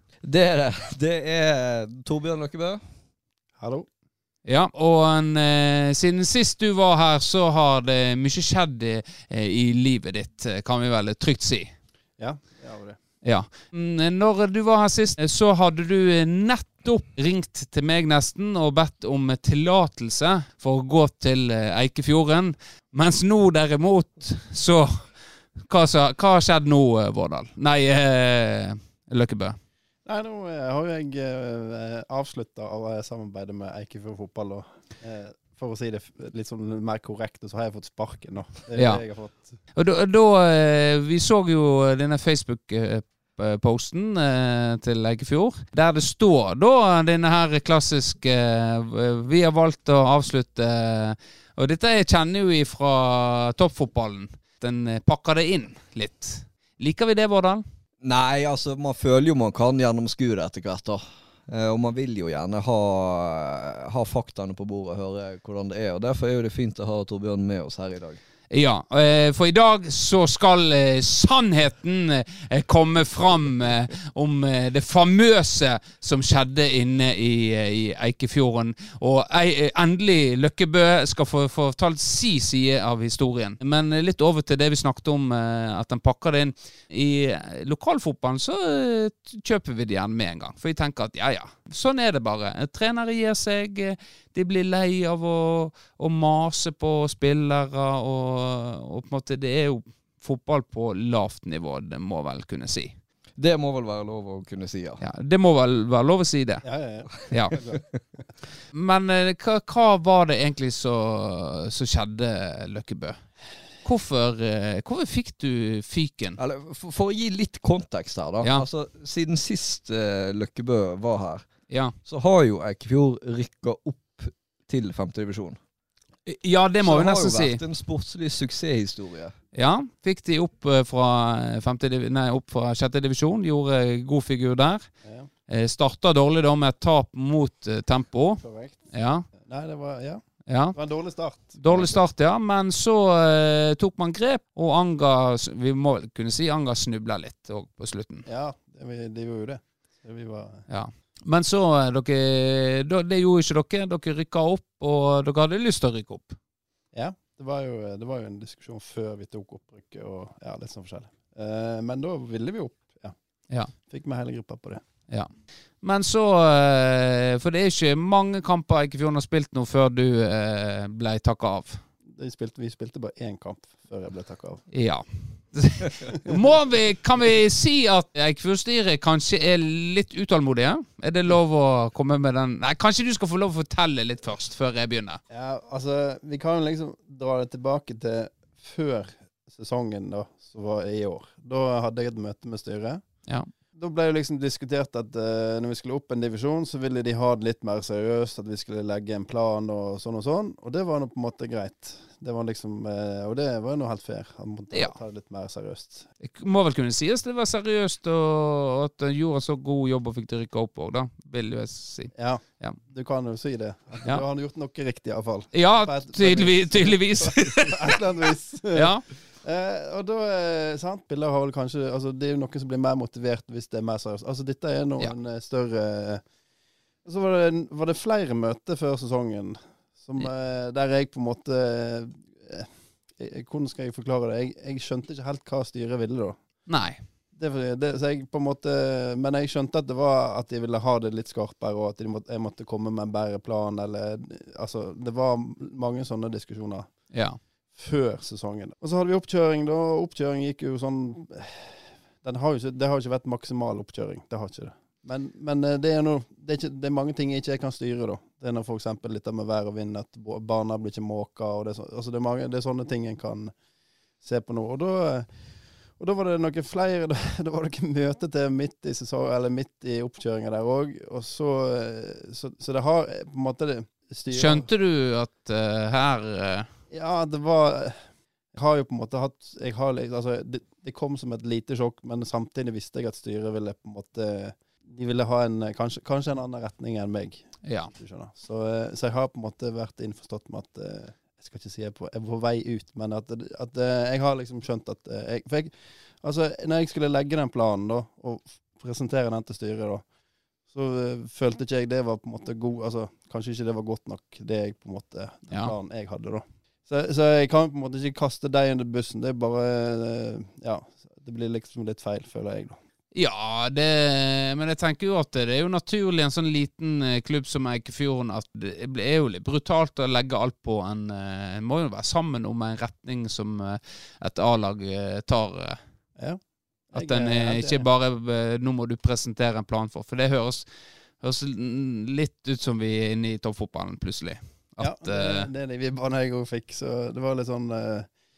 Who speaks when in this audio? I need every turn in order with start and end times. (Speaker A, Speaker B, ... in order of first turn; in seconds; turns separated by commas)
Speaker A: 0.2-2.8, Speaker B: 3.6-3.9, Speaker C: 4.4-11.7, Speaker B: 12.2-13.0, Speaker C: 13.2-29.6, Speaker B: 30.0-39.6, Speaker C: 38.8-39.0, Speaker C: 39.7-57.6, Speaker A: 58.0-68.2, Speaker C: 68.5-103.0, Speaker A: 103.3-105.0, Speaker C: 105.0-106.7, Speaker B: 106.6-108.3, Speaker C: 107.3-107.5, Speaker C: 108.7-116.4, Speaker A: 116.4-125.6, Speaker C: 121.7-121.9, Speaker C: 126.2-127.6, Speaker A: 126.8-129.3, Speaker C: 129.5-134.9, Speaker B: 135.0-135.3, Speaker C: 135.5-139.2, Speaker B: 138.4-142.0, Speaker C: 140.5-148.2, Speaker B: 148.2-150.7, Speaker C: 150.7-156.4, Speaker B: 156.9-164.8, Speaker C: 165.1-171.8, Speaker B: 172.1-174.7, Speaker C: 174.7-185.2, Speaker B: 185.3-206.1, Speaker C: 204.7-205.0, Speaker C: 206.2-212.8, Speaker B: 212.1-226.2, Speaker C: 215.5-217.9, Speaker C: 218.7-219.1, Speaker B: 227.0-236.7, Speaker C: 236.7-237.0, Speaker B: 237.3-247.1, Speaker C: 247.1-247.4, Speaker B: 247.7-263.5, Speaker B: 264.2-274.7, Speaker C: 274.3-276.7, Speaker B: 276.9-300.1, Speaker C: 287.6-287.9, Speaker B: 300.6-312.8, Speaker C: 313.1-325.8, Speaker B: 326.2-327.8, Speaker C: 326.9-335.5, Speaker B: 334.8-338.1